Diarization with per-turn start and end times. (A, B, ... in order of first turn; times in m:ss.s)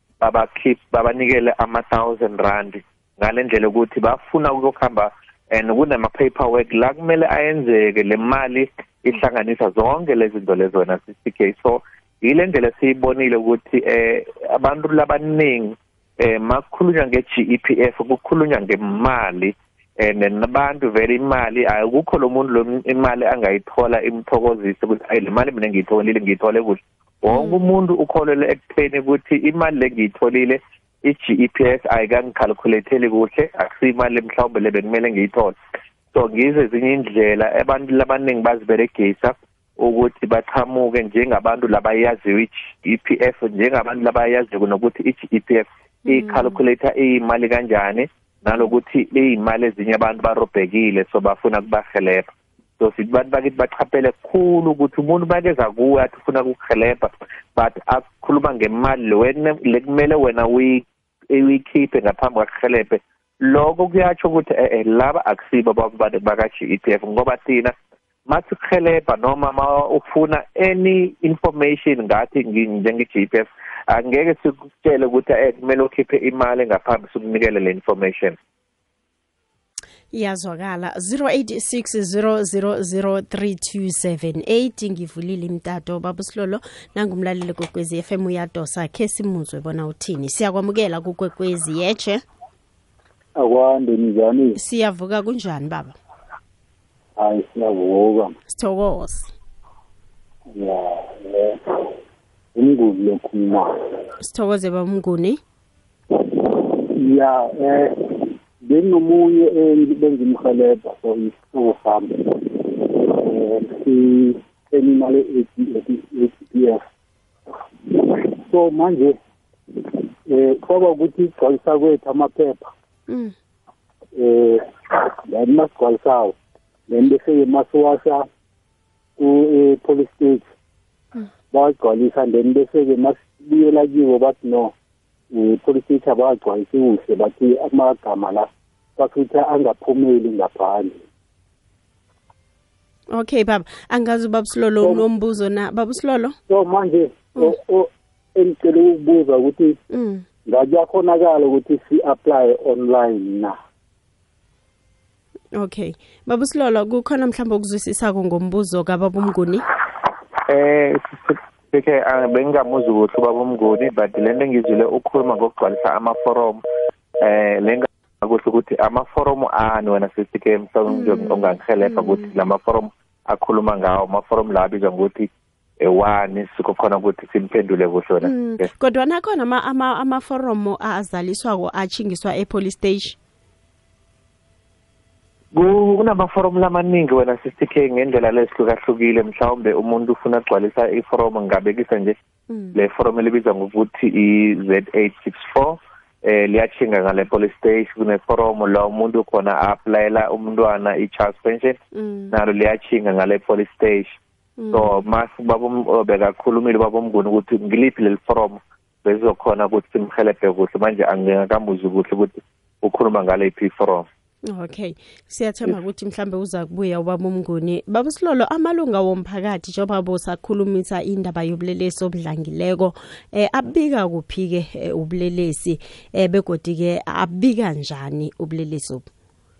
0:00.2-0:35.6 A
0:27.3-0:27.6 B
0:36.1-0:52.3 A
0:46.1-0:46.5 B
0:52.8-1:07.7 A
1:08.3-1:18.4 A
1:20.1-1:32.2 B
1:33.4-1:34.6 C
1:34.6-1:35.9 B
1:37.2-1:38.4 C
1:38.5-1:39.3 B
1:40.5-1:41.9 C
1:42.5-1:43.7 C
1:44.2-1:45.4 B
1:46.1-1:56.8 C
1:57.8-1:59.2 C
1:59.7-2:02.7 C
2:03.1-2:03.3 B
2:04.1-2:06.3 C
2:06.9-2:08.3 C
2:09.2-2:10.4 C
2:11.5-2:14.7 C
2:15.3-2:21.0 C
2:23.1-2:26.4 B
2:26.5-2:29.8 C
2:29.9-2:30.2 B
2:30.4-2:33.6 C
2:35.5-2:39.6 B
2:40.4-2:46.6 A
2:47.2-2:58.7 A
2:50.9-2:52.2 B
2:58.2-3:03.2 B
3:05.5-3:12.2 A
3:12.5-3:12.8 B
3:12.7-3:21.8 A
3:21.9-3:22.3 B
3:22.3-3:24.2 A
3:24.6-3:25.0 B
3:24.7-3:34.0 A
3:34.5-3:49.1 B